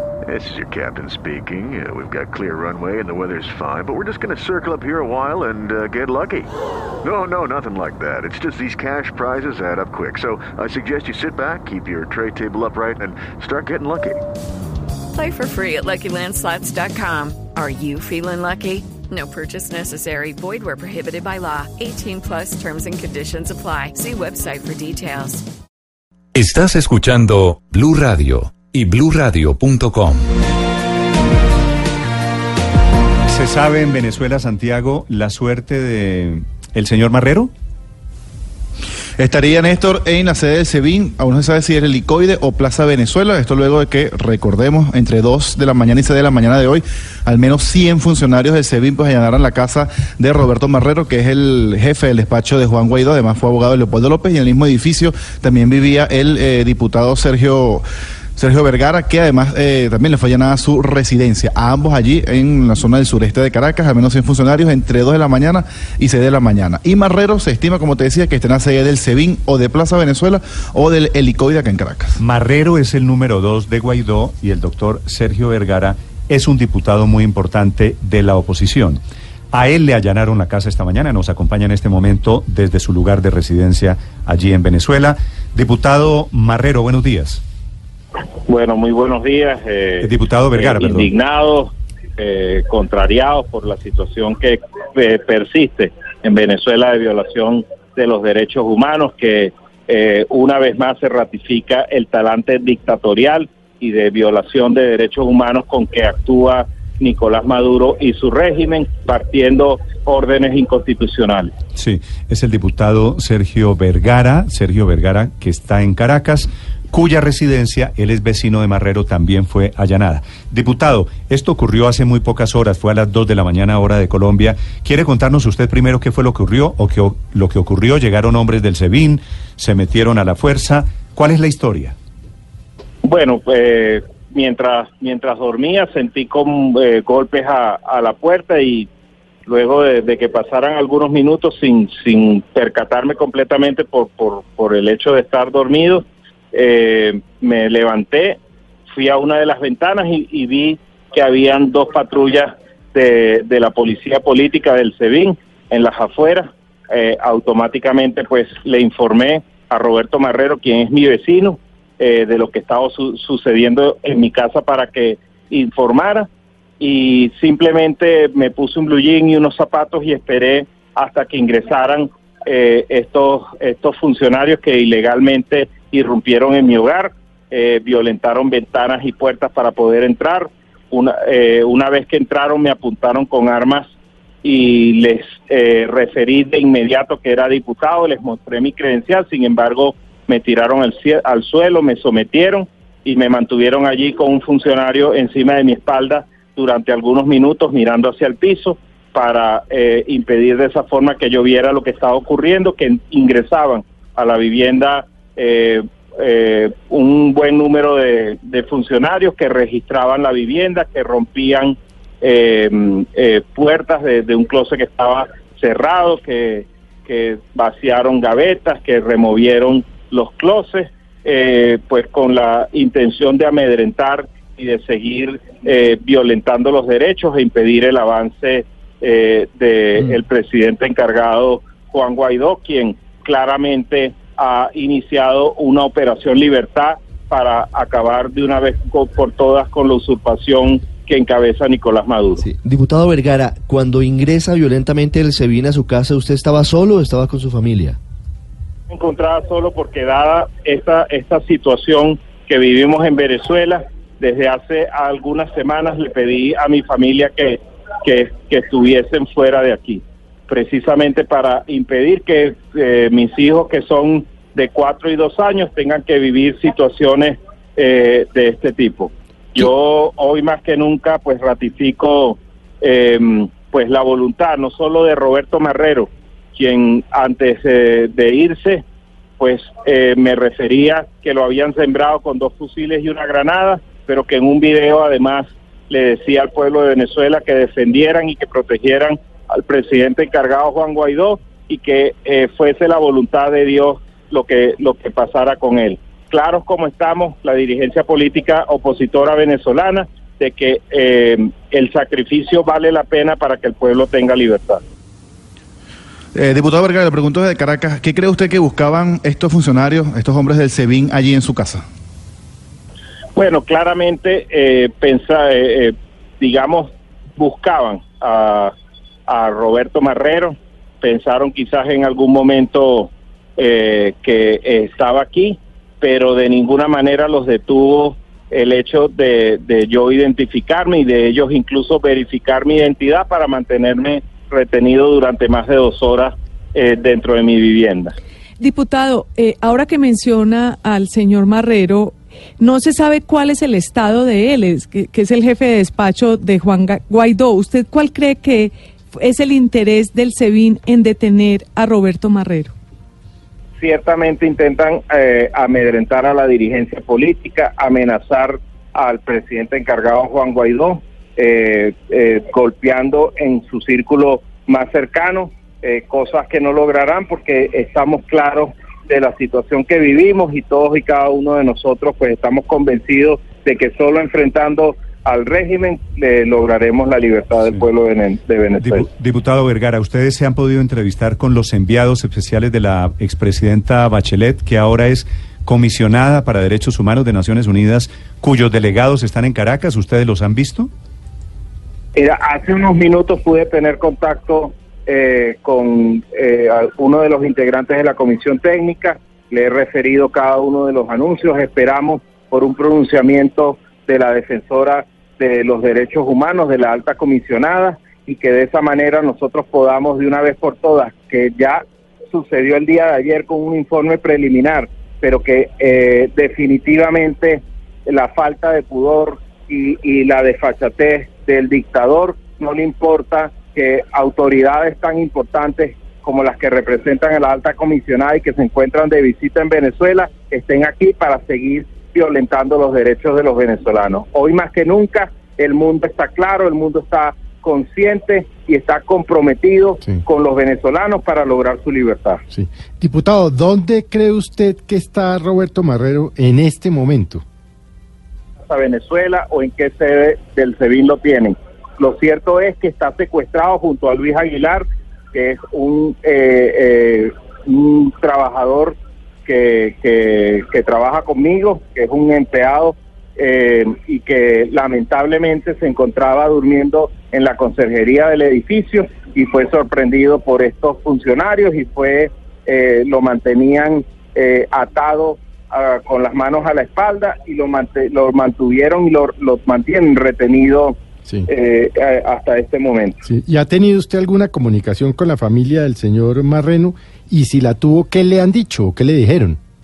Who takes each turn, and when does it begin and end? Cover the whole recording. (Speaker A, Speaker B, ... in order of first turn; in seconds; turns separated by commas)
Speaker A: 0.2-6.5, Speaker A: 7.0-14.2, Speaker B: 15.1-25.4, Speaker C: 26.4-30.2, Speaker D: 33.3-37.5, Speaker E: 39.2-57.8, Speaker E: 58.4-72.2, Speaker D: 72.2-79.0, Speaker D: 79.5-87.4, Speaker F: 88.5-111.5, Speaker D: 90.0-91.1, Speaker D: 111.8-131.9, Speaker F: 133.0-138.9, Speaker F: 139.4-166.3, Speaker F: 166.8-183.9, Speaker F: 184.4-242.4, Speaker G: 242.4-248.0, Speaker F: 248.9-278.8, Speaker F: 279.4-304.8, Speaker E: 306.3-311.8, Speaker F: 313.3-318.7, Speaker F: 319.3-338.1, Speaker H: 338.6-352.7, Speaker F: 353.8-379.1, Speaker D: 378.8-390.9, Speaker F: 392.1-442.4, Speaker I: 442.5-447.4, Speaker F: 448.6-483.2, Speaker I: 483.2-489.6